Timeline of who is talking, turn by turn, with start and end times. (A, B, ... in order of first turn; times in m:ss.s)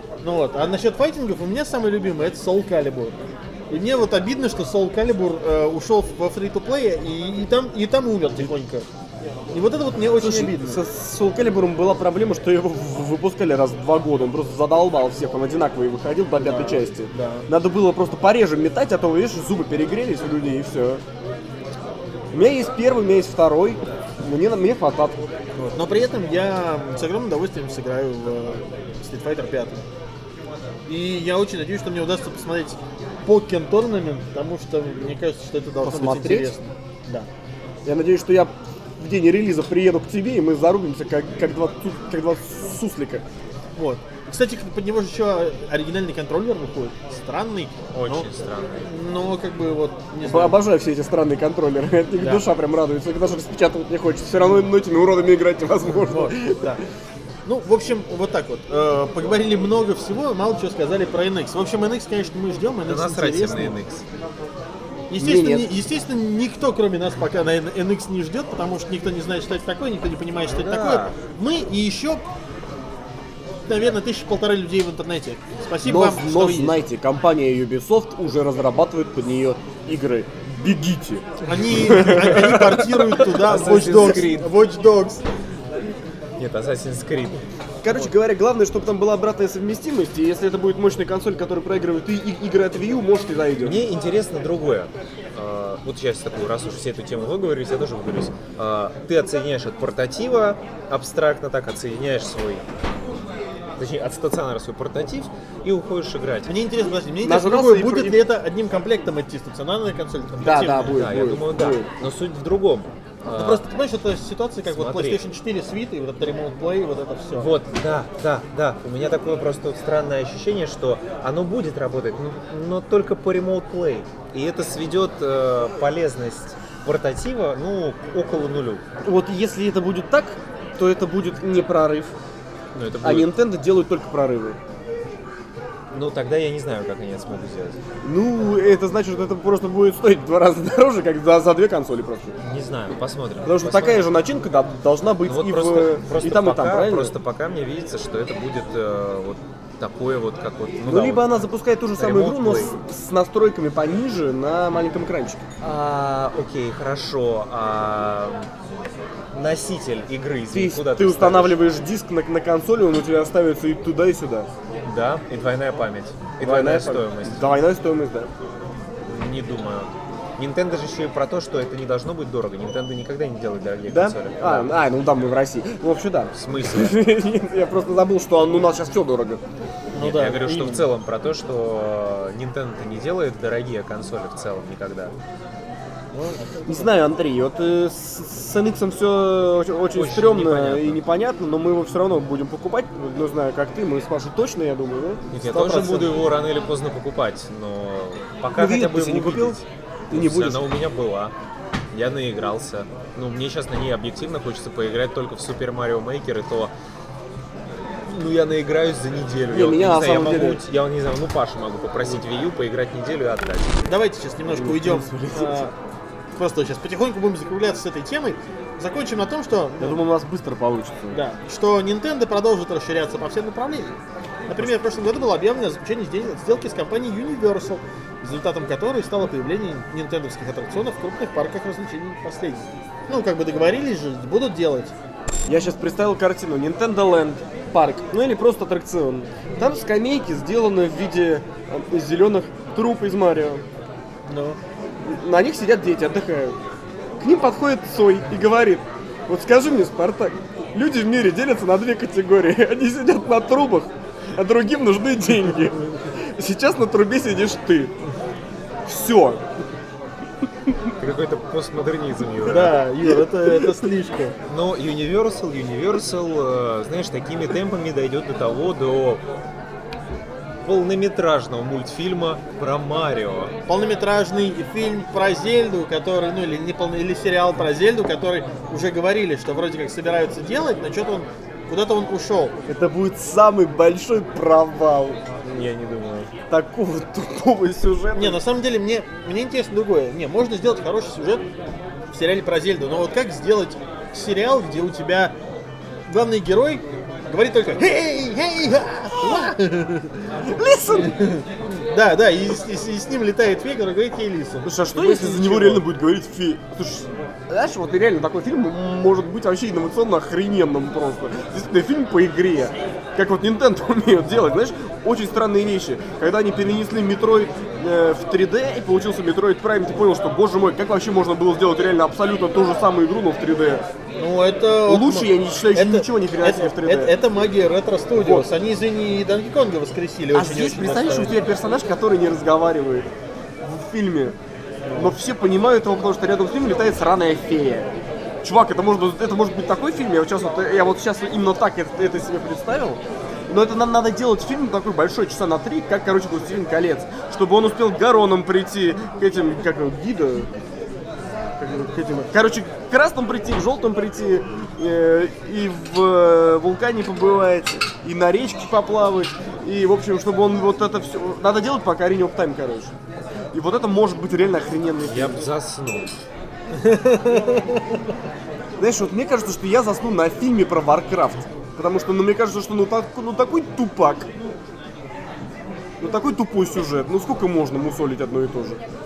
0:00.2-0:03.2 A
0:03.7-0:08.9 A
0:09.5-0:10.8 A
0:10.2-0:21.0 B
0:16.4-0:17.5 A
0:22.3-0:25.3 B
0:25.6-0:29.8 A
0:30.9-0:37.3 A
0:35.8-0:36.5 B
0:37.8-0:43.2 B
0:43.8-0:48.3 A
0:47.9-0:48.9 C
0:48.8-0:50.6 A
0:50.2-0:56.8 B
0:52.2-0:52.4 A
0:55.9-0:56.8 A
0:57.4-1:03.8 A
1:02.9-1:04.0 C
1:05.1-1:12.2 A
1:05.2-1:05.7 B
1:10.6-1:11.1 C
1:13.7-1:16.8 A
1:15.8-1:23.4 B
1:21.4-1:25.2 A
1:23.2-1:24.5 C
1:26.4-1:27.4 C
1:27.8-1:33.8 B
1:33.6-1:42.7 C
1:43.8-1:46.5 C
1:46.5-1:51.0 A
1:47.2-1:48.2 B
1:50.4-1:51.9 B
1:50.7-1:53.6 C
1:53.3-1:57.5 A
1:54.6-1:55.2 C
1:57.3-2:08.8 C
2:09.0-2:12.1 B
2:12.7-2:13.3 C
2:13.0-2:14.6 B
2:15.9-2:17.8 C
2:18.0-2:22.4 B
2:22.4-2:24.1 C
2:23.4-2:27.1 B
2:25.2-2:31.3 C
2:30.9-2:35.4 B
2:32.0-2:32.7 C
2:35.6-2:38.5 C
2:39.3-2:41.6 C
2:40.5-2:44.5 B
2:44.8-2:47.5 C
2:46.4-2:48.3 B
2:49.0-2:54.8 C
2:53.9-2:59.4 B
2:56.3-2:57.0 C
2:59.9-3:00.9 A
3:00.0-3:05.1 C
3:06.1-3:06.9 A
3:06.6-3:16.2 B
3:09.9-3:11.0 C
3:15.3-3:21.3 C
3:18.5-3:19.6 B
3:20.1-3:20.7 B
3:21.9-3:26.7 C
3:28.1-3:33.8 C
3:29.5-3:30.6 B
3:33.8-3:35.7 A
3:34.5-3:35.7 B
3:36.4-3:40.0 A
3:39.8-3:41.2 B
3:41.1-3:44.0 A
3:44.5-3:54.9 A
3:55.4-4:03.6 B
4:04.3-4:04.6 A
4:05.0-4:06.6 B
4:07.2-4:18.0 B
4:18.8-4:19.4 B
4:21.0-4:22.8 C
4:22.4-4:24.4 A
4:24.5-4:29.2 C
4:30.6-4:33.5 C
4:33.7-4:42.6 A
4:42.6-4:45.2 B
4:45.4-4:46.3 C
4:46.5-4:48.4 B
4:48.1-4:51.5 A
4:52.1-4:55.3 A
4:56.1-5:00.2 A
4:59.2-4:59.5 B
5:00.4-5:01.2 B
5:00.9-5:05.8 A
5:04.6-5:23.8 B
5:24.2-5:31.4 A
5:24.8-5:27.1 B
5:28.1-5:28.5 B
5:30.3-5:33.1 B
5:33.6-5:34.4 B
5:34.8-5:35.1 A
5:34.9-5:37.9 B
5:38.4-5:50.5 B
5:51.6-6:02.9 B
6:03.5-6:05.5 B
6:05.0-6:06.1 C
6:06.7-6:08.0 A
6:08.8-6:14.3 B
6:16.0-6:18.8 B